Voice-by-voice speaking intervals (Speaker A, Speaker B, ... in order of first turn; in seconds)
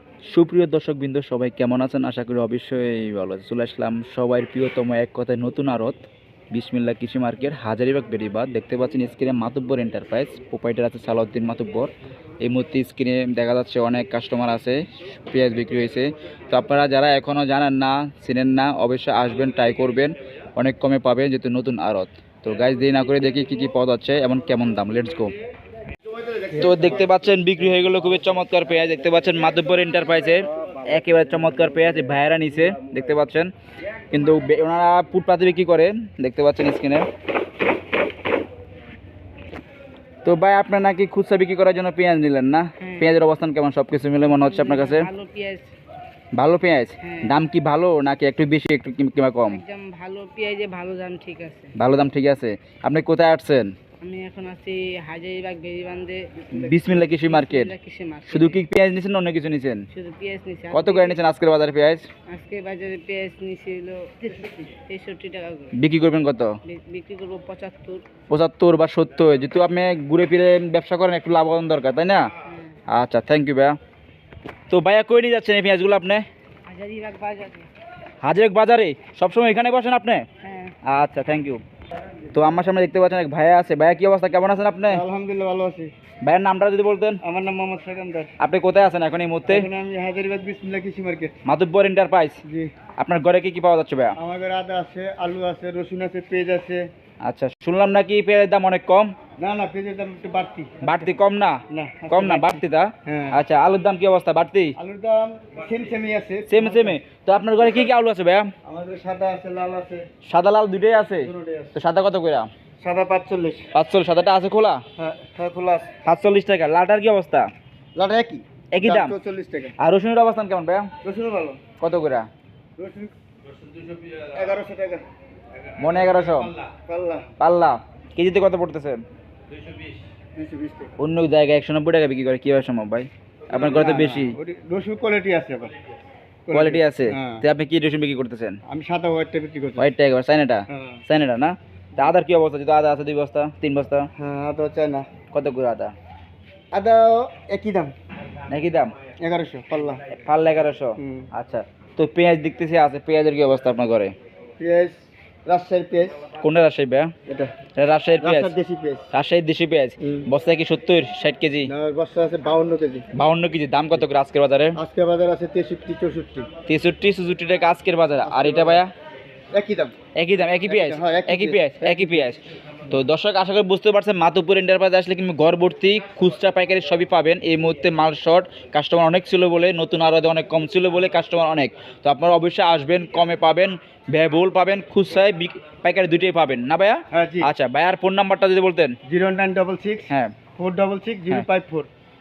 Speaker A: 0.3-6.0, 6.5-25.3, 26.5-33.5, 34.1-37.1, 40.2-45.1, 46.4-49.6, 51.8-53.7, 56.5-57.7, 58.3-59.8, 60.7-62.0, 65.7-66.5, 68.3-72.3, 72.9-73.8, 74.7-76.2, 78.2-80.2, 80.8-81.6, 82.3-85.0, 86.2-87.2, 88.4-89.7, 91.4-92.4, 93.0-94.2, 97.2-99.1, 100.8-101.6, 102.1-104.8, 106.5-108.5, 110.3-112.5, 113.7-114.8, 116.0-117.5, 118.7-119.1, 119.8-120.9, 121.8-122.3, 125.8-126.5, 127.4-129.0, 131.0-134.4, 136.5-138.6, 139.8-144.1, 145.3-145.9, 148.5-148.9, 150.1-154.1, 156.4-157.1, 157.8-158.5, 159.1-161.7, 163.1-164.8, 166.7-168.9, 170.2-188.9, 190.1-190.3
Speaker B: 26.2-27.0, 56.4-56.9, 84.9-85.9, 87.2-88.3, 89.5-91.3, 92.4-92.7, 94.2-96.8, 99.4-100.8, 101.7-103.4, 104.8-107.0, 108.6-110.0, 111.2-111.7, 112.8-113.7, 115.0-115.9, 117.9-119.7, 121.0-121.6, 122.8-123.1, 124.2-125.0, 126.7-127.3, 130.3-130.9, 133.5-135.7, 136.5-137.4, 138.7-139.9, 140.7-141.0, 144.2-145.0, 146.7-147.9, 149.2-150.0, 151.0-151.3, 154.6-156.2, 157.3-157.5, 158.2-159.1, 160.0-160.3, 161.7-163.1, 164.8-166.5, 168.2-168.8, 169.5-169.9, 170.7-172.4, 187.1-187.5, 189.1-191.9
Speaker C: 42.8-43.1, 44.3-45.7, 47.0-47.4, 49.5-51.7, 54.0-58.6, 59.9-61.2, 62.3-65.8, 66.6-68.0, 72.4-72.8, 76.7-77.7, 80.4-80.7